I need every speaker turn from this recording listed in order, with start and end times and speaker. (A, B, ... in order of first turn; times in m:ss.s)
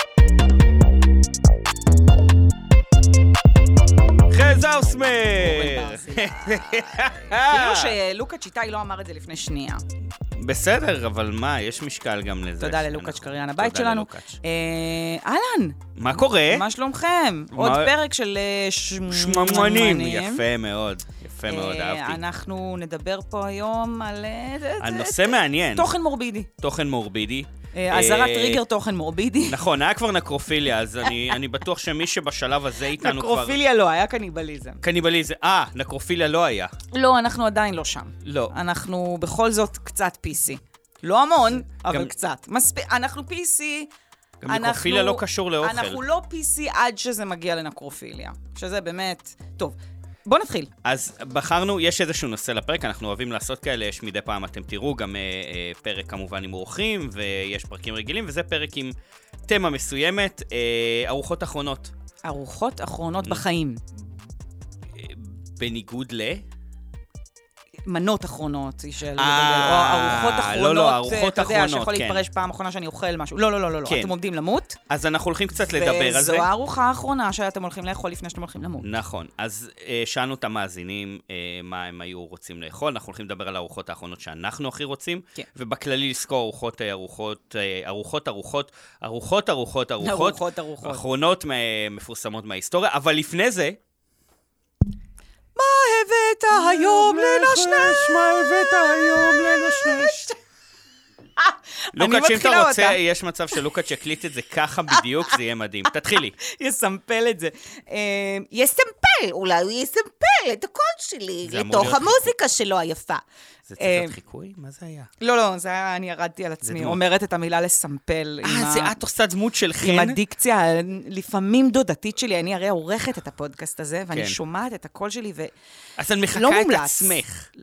0:04.3-0:08.0 A
0:05.4-0:09.8 B
0:10.4-0:14.4 A
0:12.6-0:20.4 B
0:16.0-0:16.7 A
0:17.5-0:17.9 A
0:19.1-0:22.2 A
0:21.5-0:26.5 B
0:24.8-0:26.0 A
0:26.6-0:28.6 A
0:27.7-0:29.6 B
0:29.5-0:33.6 A
0:33.0-0:34.8 B
0:34.8-0:36.7 A
0:36.9-0:43.9 B
0:38.2-0:38.6 A
0:41.9-0:42.1 A
0:44.4-0:46.0 A
0:44.5-0:50.7 B
0:50.8-0:59.0 A
0:59.5-1:01.9 A
1:02.2-1:03.8 B
1:04.9-1:06.4 A
1:07.8-1:14.8 B
1:09.2-1:12.3 A
1:13.8-1:14.1 A
1:14.9-1:16.5 A
1:15.6-1:18.9 B
1:18.8-1:33.8 A
1:30.0-1:31.0 B
1:35.6-1:40.4 B
1:36.5-1:40.3 A
1:41.4-1:43.0 B
1:41.9-1:46.4 A
1:45.0-1:45.3 B
1:46.2-1:53.2 B
1:51.4-1:52.3 A
1:53.7-1:55.1 A
1:53.8-1:54.2 B
1:55.2-1:58.9 B
1:56.6-1:57.0 A
1:58.4-2:00.2 A
1:59.8-2:05.5 B
2:04.1-2:04.4 A
2:06.0-2:07.5 A
2:06.3-2:07.2 B